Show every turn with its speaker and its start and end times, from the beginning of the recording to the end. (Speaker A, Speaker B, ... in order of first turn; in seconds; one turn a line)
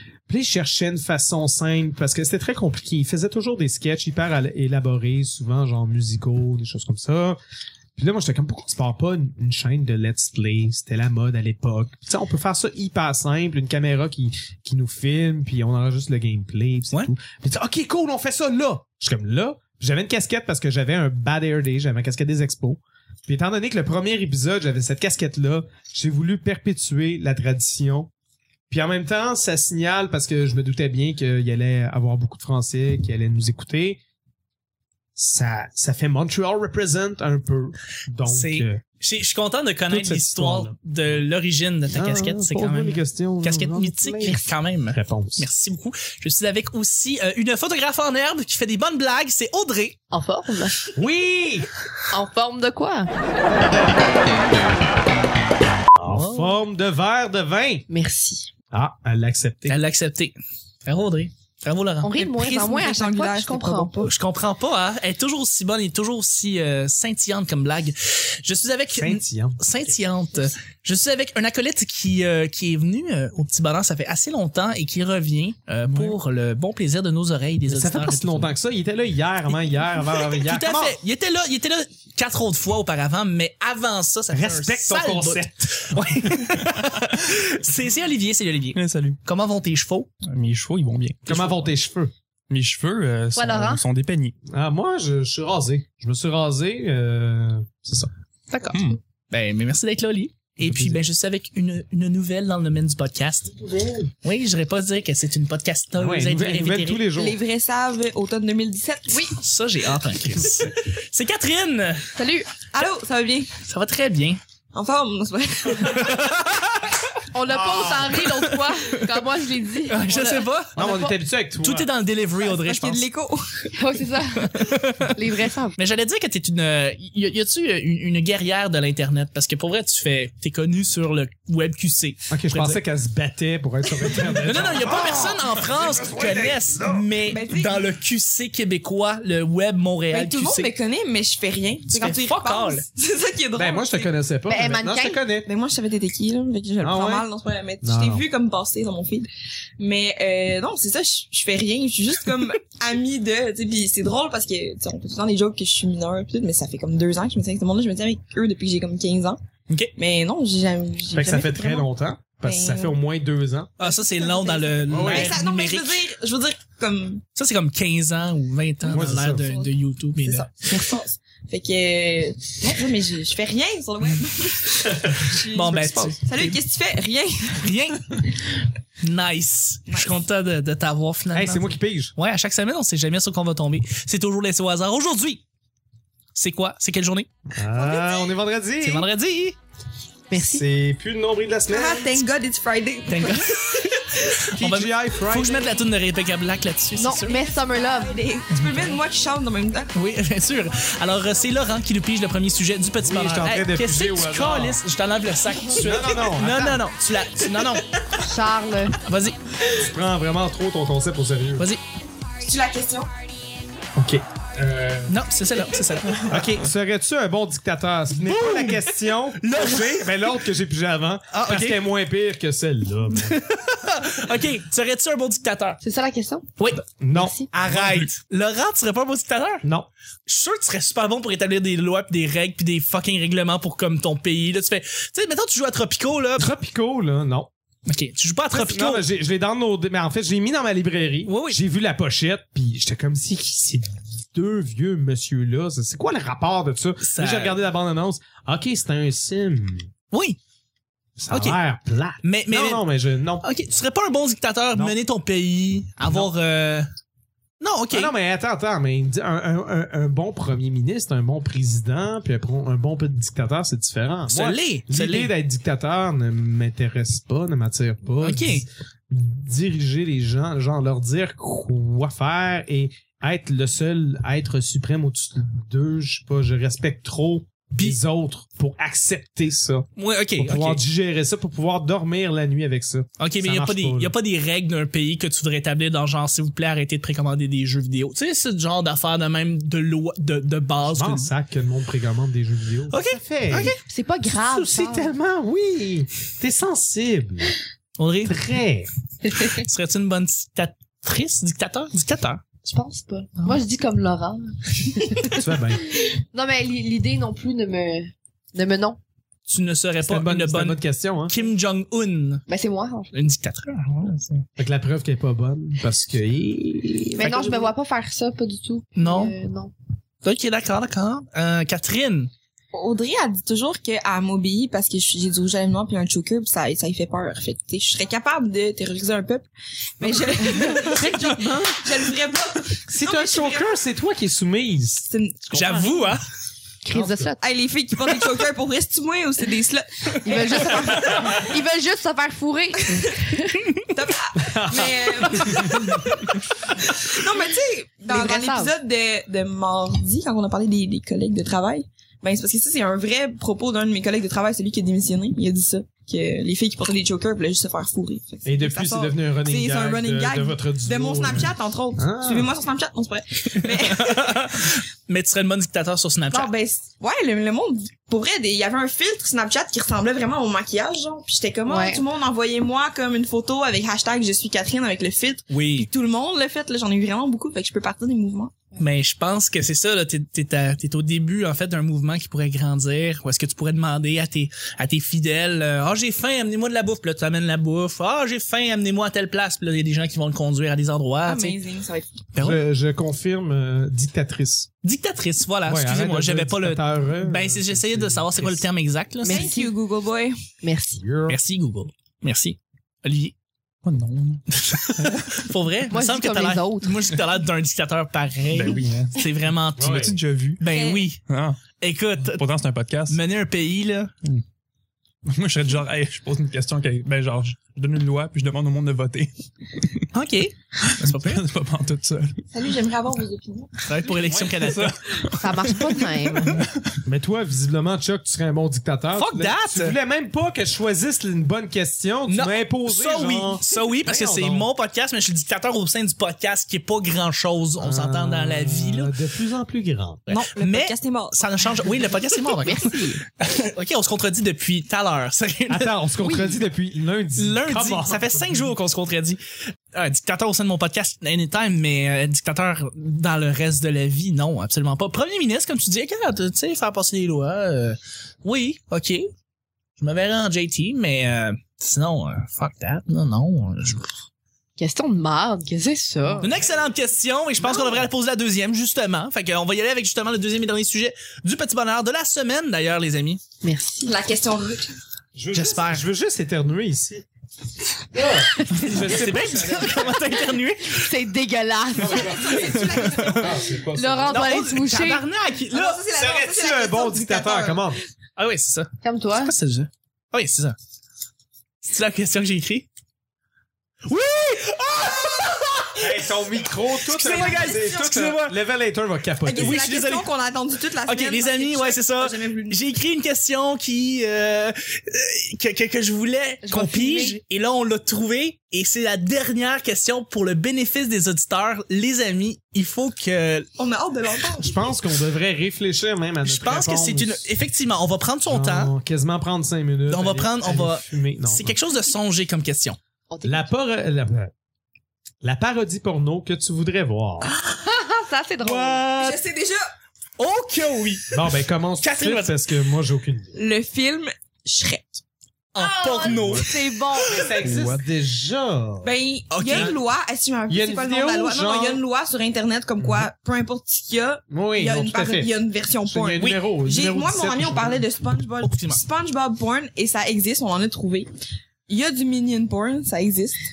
Speaker A: 0.3-7.4
Speaker A: 8.0-28.1
Speaker A: 28.7-34.0
Speaker A: 35.1-38.8
Speaker B: 38.2-50.0
Speaker A: 39.9-41.2
Speaker A: 41.9-45.5
Speaker C: 50.1-50.9
Speaker A: 51.0-51.7
Speaker C: 52.1-53.1
Speaker A: 56.0-57.9
Speaker B: 56.1-56.6
Speaker C: 57.9-58.5
Speaker A: 58.7-59.8
Speaker B: 59.7-62.1
Speaker C: 62.0-64.1
Speaker D: 62.1-63.9
Speaker B: 64.0-78.5
Speaker A: 69.0-69.9
Speaker E: 75.9-76.2
Speaker A: 77.7-81.0
Speaker B: 80.4-90.1
Speaker A: 84.3-85.9
Speaker E: 88.7-89.2
Speaker E: 90.2-91.6
Speaker A: 91.2-92.1
Speaker E: 92.5-94.3
Speaker C: 93.3-93.8
Speaker A: 94.5-98.1
Speaker B: 98.5-103.5
Speaker E: 98.7-99.0
Speaker A: 100.6-101.0
Speaker A: 103.6-104.1
Speaker B: 104.2-107.1
Speaker A: 105.9-107.4
Speaker D: 107.2-109.3
Speaker B: 109.4-112.1
Speaker A: 110.3-110.7
Speaker C: 112.2-112.5
Speaker D: 112.7-113.5
Speaker B: 113.6-114.4
Speaker D: 114.7-116.3
Speaker B: 115.9-117.0
Speaker C: 117.3-121.1
Speaker A: 117.5-118.2
Speaker B: 119.9-120.8
Speaker A: 120.7-121.9
Speaker B: 121.6-123.0
Speaker D: 122.4-123.7
Speaker C: 123.7-125.8
Speaker B: 124.4-125.1
Speaker B: 125.8-132.8
Speaker A: 132.3-137.1
Speaker B: 134.4-140.7
Speaker D: 137.3-137.8
Speaker D: 140.1-144.1
Speaker B: 141.9-142.8
Speaker A: 143.6-145.5
Speaker C: 144.5-145.2
Speaker D: 145.4-149.3
Speaker A: 146.8-147.2
Speaker A: 147.8-148.2
Speaker D: 149.8-159.4
Speaker D: 160.0-161.9
Speaker A: 161.1-163.7
Speaker D: 162.4-163.0
Speaker B: 163.8-166.0
Speaker D: 163.8-167.2
Speaker A: 164.9-165.4
Speaker B: 167.3-170.7
Speaker D: 168.8-177.7
Speaker A: 168.9-169.4
Speaker A: 175.1-176.2
Speaker B: 175.3-176.6
Speaker B: 177.6-178.2
Speaker B: 179.0-185.4
Speaker D: 179.9-180.2
Speaker A: 181.3-182.1
Speaker B: 186.3-187.3
Speaker A: 187.5-189.1
Speaker D: 187.8-188.2
Speaker B: 188.8-189.6
Speaker C: 190.3-190.6
Speaker A: 190.3-192.2
Speaker D: 191.7-194.3
Speaker B: 193.1-197.4
Speaker A: 194.6-195.8
Speaker C: 197.0-198.2
Speaker D: 197.4-199.9
Speaker B: 198.5-198.9
Speaker B: 199.9-208.2
Speaker A: 203.0-204.8
Speaker A: 205.7-206.9
Speaker C: 208.2-209.0
Speaker B: 209.0-209.4
Speaker A: 209.7-211.7
Speaker D: 212.4-213.1
Speaker A: 213.9-215.1
Speaker B: 215.1-216.3
Speaker A: 216.3-223.4
Speaker B: 218.2-220.2
Speaker B: 221.3-221.8
Speaker B: 223.1-225.8
Speaker C: 225.8-226.5
Speaker B: 226.6-226.8
Speaker A: 227.0-228.1
Speaker C: 227.1-227.5
Speaker B: 227.5-229.7
Speaker E: 227.8-228.1
Speaker A: 229.6-229.9
Speaker B: 230.2-236.5
Speaker A: 236.4-237.5
Speaker B: 237.9-239.1
Speaker A: 238.5-249.9
Speaker B: 241.2-241.6
Speaker B: 247.0-247.6
Speaker B: 250.1-250.4
Speaker A: 251.2-253.8
Speaker B: 251.3-251.6
Speaker B: 252.2-252.9
Speaker B: 253.4-256.9
Speaker B: 257.6-258.1
Speaker A: 257.9-284.1
Speaker B: 264.3-265.3
Speaker B: 268.2-268.6
Speaker B: 279.9-280.8
Speaker B: 283.2-291.3
Speaker A: 290.9-293.7
Speaker B: 292.9-293.8
Speaker C: 293.8-295.1
Speaker A: 294.5-297.5
Speaker B: 298.0-298.4
Speaker A: 298.2-298.9
Speaker B: 299.3-302.4
Speaker C: 302.6-309.0
Speaker A: 305.3-305.9
Speaker B: 309.5-312.4
Speaker A: 310.1-311.4
Speaker C: 312.5-313.1
Speaker B: 313.1-314.4
Speaker A: 314.6-317.4
Speaker C: 317.2-319.7
Speaker D: 317.2-317.6
Speaker B: 319.0-319.3
Speaker B: 320.2-322.3
Speaker D: 322.7-329.5
Speaker D: 330.0-333.8
Speaker A: 330.0-330.9
Speaker C: 330.4-331.2
Speaker A: 332.9-335.1
Speaker D: 335.1-336.1
Speaker B: 335.5-336.2
Speaker C: 336.8-337.4
Speaker A: 336.9-337.3
Speaker D: 337.4-341.5
Speaker C: 340.2-343.7
Speaker D: 342.9-343.1
Speaker D: 343.9-364.7
Speaker A: 344.4-346.0
Speaker C: 348.1-348.7
Speaker A: 358.4-362.5
Speaker B: 363.6-366.5
Speaker D: 366.3-378.5
Speaker C: 371.6-372.0
Speaker B: 375.5-375.9
Speaker B: 378.8-391.6
Speaker D: 391.2-392.2
Speaker B: 392.3-392.6
Speaker A: 392.4-394.7
Speaker B: 394.8-399.5
Speaker A: 395.7-398.6
Speaker C: 399.2-399.7
Speaker D: 399.3-400.3
Speaker C: 400.6-401.0
Speaker A: 400.9-401.4
Speaker B: 401.3-403.3
Speaker E: 403.8-405.5
Speaker B: 404.5-411.2
Speaker C: 405.9-407.1
Speaker E: 408.5-410.6
Speaker A: 409.8-410.2
Speaker D: 410.7-411.1
Speaker E: 411.2-411.6
Speaker B: 411.8-412.4
Speaker E: 412.2-413.2
Speaker B: 413.1-414.1
Speaker E: 415.2-420.0
Speaker B: 420.1-421.4
Speaker E: 420.9-422.4
Speaker D: 422.5-423.9
Speaker B: 423.8-426.0
Speaker A: 424.2-424.5
Speaker E: 424.5-427.0
Speaker C: 425.4-426.6
Speaker A: 427.0-434.7
Speaker B: 429.1-430.0
Speaker B: 432.3-439.1
Speaker A: 437.8-440.2
Speaker D: 440.3-441.9
Speaker B: 440.3-446.3
Speaker C: 442.6-443.2
Speaker A: 445.7-448.6
Speaker B: 447.4-449.4
Speaker B: 449.9-459.3
Speaker B: 460.0-464.1
Speaker C: 464.8-466.5
Speaker A: 466.2-466.7
Speaker B: 466.4-473.4
Speaker C: 473.6-474.1
Speaker D: 474.0-474.9
Speaker A: 475.3-477.2
Speaker B: 475.5-476.1
Speaker A: 478.1-480.2
Speaker C: 478.5-479.1
Speaker B: 478.8-481.1
Speaker C: 480.9-482.8
Speaker A: 482.0-484.6
Speaker D: 482.0-483.8
Speaker C: 483.9-485.2
Speaker B: 484.3-486.0
Speaker D: 485.7-488.0
Speaker A: 486.1-488.0
Speaker B: 488.4-490.8
Speaker C: 489.0-489.5
Speaker B: 491.8-492.9
Speaker B: 494.1-496.2
Speaker A: 496.0-499.8
Speaker B: 497.0-498.6
Speaker D: 497.1-498.2
Speaker D: 499.4-502.8
Speaker B: 499.5-500.3
Speaker B: 501.0-513.7
Speaker C: 506.6-507.4
Speaker D: 513.8-514.9
Speaker A: 514.6-517.5
Speaker B: 516.4-518.9
Speaker A: 518.5-521.8
Speaker B: 520.1-523.0
Speaker C: 523.3-523.7
Speaker A: 523.4-524.5
Speaker A: 525.4-527.5
Speaker C: 527.6-529.4
Speaker D: 529.0-529.8
Speaker B: 530.4-531.4
Speaker A: 531.3-533.5
Speaker B: 532.0-532.6
Speaker D: 533.5-535.2
Speaker B: 535.7-537.5
Speaker C: 535.8-537.5
Speaker D: 536.3-537.3
Speaker A: 537.3-539.1
Speaker E: 537.6-538.0
Speaker D: 539.0-551.3
Speaker B: 539.5-539.9
Speaker A: 539.7-540.0
Speaker A: 540.7-542.0
Speaker A: 543.0-543.3
Speaker A: 544.5-545.5
Speaker A: 546.0-548.0
Speaker B: 548.6-549.0
Speaker D: 551.9-553.6